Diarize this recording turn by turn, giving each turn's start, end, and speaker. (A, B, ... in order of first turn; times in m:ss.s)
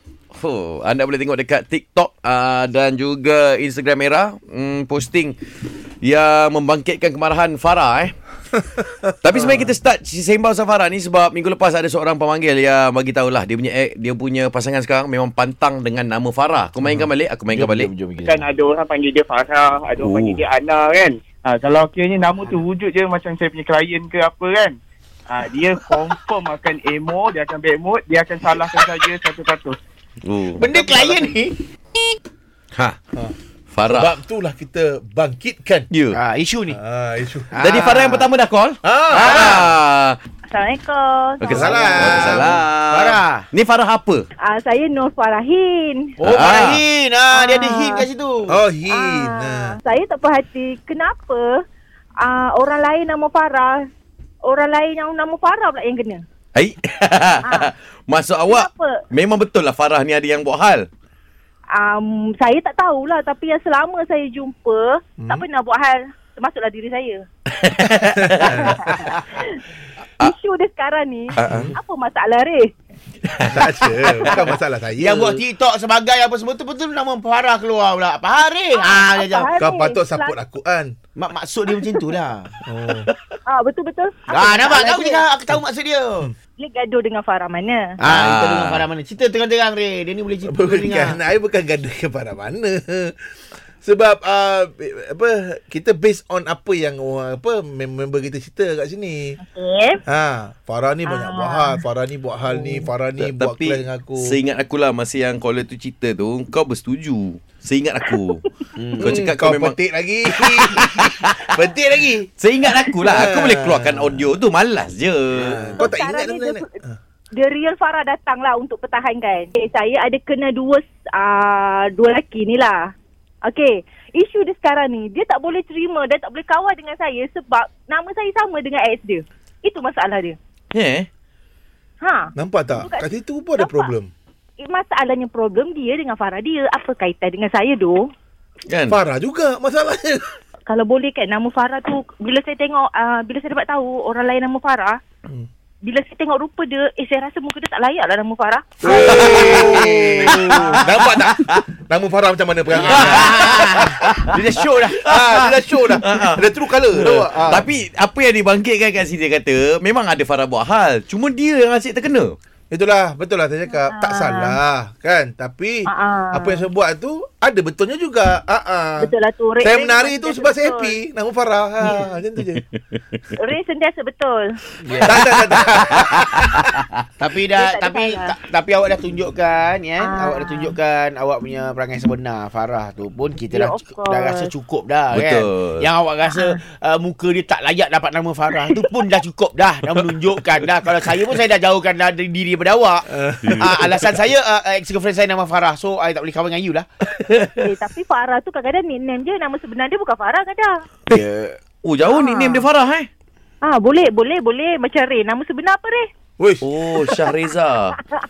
0:00.4-0:05.4 A
0:06.0-0:08.2 A
0:09.2-0:17.9 A
0:09.4-0:09.6 B
0:16.8-0:17.1 B
0:17.5-0:18.4 C
0:18.2-0:24.8 D
0:20.0-0:20.4 A
0:25.3-0:29.8 D
0:30.2-0:30.7 A
0:30.6-0:31.6 C
0:30.8-0:31.2 D
0:33.7-0:34.1 A
0:33.9-0:35.9 B
0:35.9-0:36.2 A
0:36.1-0:36.8 C
0:36.7-0:37.5 B
0:37.5-0:38.3 C
0:37.6-0:40.2 A
0:38.8-0:39.7 B
0:40.5-0:42.3 E
0:41.4-0:44.3 A
0:41.5-0:42.6 B
0:42.0-0:43.5 C
0:44.4-0:46.1 E
0:46.2-0:48.6 C
0:46.2-0:46.8 A
0:47.3-0:48.1 E
0:48.5-0:49.8 B
0:48.9-0:51.6 E
0:52.2-0:53.8 E
0:54.4-0:56.2 E
0:56.6-1:00.9 A
0:57.4-0:57.7 E
0:58.5-0:59.0 E
1:01.7-1:07.3 E
1:05.2-1:05.4 B
1:07.5-1:08.9 A
1:08.0-1:08.9 B
1:08.4-1:09.6 E
1:10.2-1:12.7 E
1:11.4-1:11.7 A
1:11.4-1:11.8 B
1:13.3-1:13.6 A
1:13.4-1:15.4 B
1:15.0-1:19.5 C
1:18.7-1:20.4 E
1:19.6-1:20.9 B
1:21.2-1:22.5 C
1:22.6-1:23.1 B
1:23.5-1:25.2 E
1:24.3-1:26.3 C
1:26.6-1:27.9 E
1:28.0-1:31.2 C
1:28.0-1:28.9 A
1:30.4-1:33.2 B
1:33.8-1:39.4 B
1:39.4-1:40.0 E
1:40.1-1:44.4 B
1:41.1-1:41.8 E
1:43.2-1:48.4 A
1:48.8-1:49.3 C
1:49.0-1:49.8 A
1:49.0-1:52.3 B
1:50.4-1:51.5 A
1:52.4-1:55.6 A
1:53.0-1:54.3 B
1:55.4-1:55.9 C
1:55.6-1:57.0 B
1:55.8-1:56.7 E
1:57.4-2:02.9 E
2:03.4-2:10.4 E
2:10.7-2:11.1 A
2:12.0-2:13.9 E
2:12.4-2:14.1 B
2:14.6-2:18.1 E
2:18.7-2:19.0 A
2:18.9-2:20.3 B
2:20.7-2:25.0 E
2:25.8-2:29.3 E
2:28.8-2:34.1 B
2:28.8-2:31.6 A
2:29.0-2:30.8 C
2:32.7-2:35.2 C
2:32.8-2:42.4 A
2:35.0-2:37.7 B
2:42.7-2:49.1 B
2:43.8-2:44.6 E
2:45.9-2:46.7 E
2:49.0-2:51.0 E
2:49.6-2:52.6 B
2:51.8-2:52.1 E
2:53.4-2:54.6 E
2:54.8-2:56.2 C
2:55.0-2:56.8 B
2:57.2-3:16.9 C
2:57.5-2:58.3 E
3:00.0-3:00.8 E
3:03.5-3:04.5 E
3:05.1-3:05.9 A
3:06.3-3:06.6 E
3:08.5-3:08.9 E
3:13.2-3:14.0 B
3:17.2-3:17.6 B
3:17.6-3:20.8 E
3:21.1-3:21.6 C
3:21.8-3:23.1 A
3:22.1-3:22.7 E
3:23.6-3:26.1 E
3:26.4-3:27.3 B
3:26.6-3:28.0 A